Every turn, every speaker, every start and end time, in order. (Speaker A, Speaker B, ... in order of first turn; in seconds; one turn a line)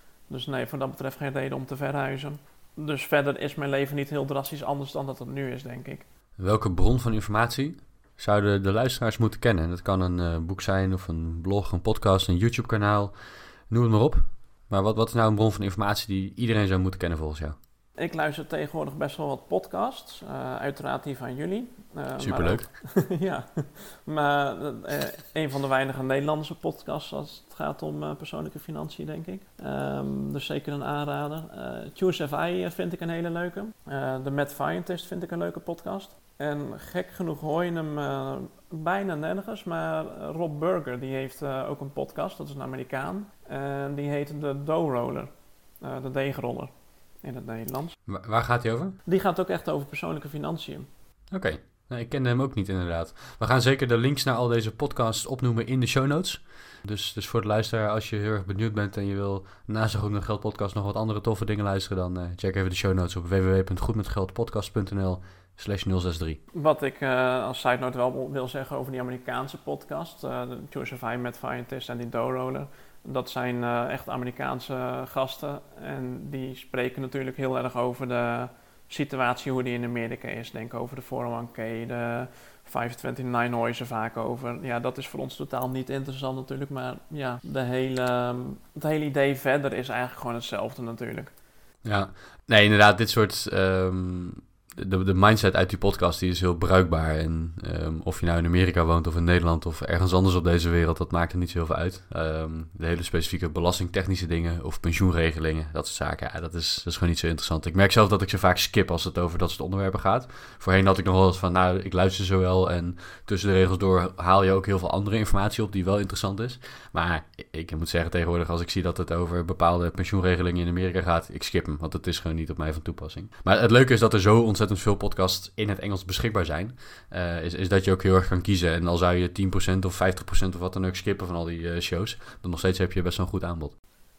Speaker A: 0.3-6.0
Speaker B: 6.4-17.6
Speaker A: 18.0-45.3
Speaker B: 22.2-22.7
Speaker A: 45.8-48.0
Speaker B: 48.1-49.0
Speaker A: 49.1-50.9
Speaker B: 51.3-66.4
Speaker A: 66.5-91.3
Speaker B: 91.8-133.8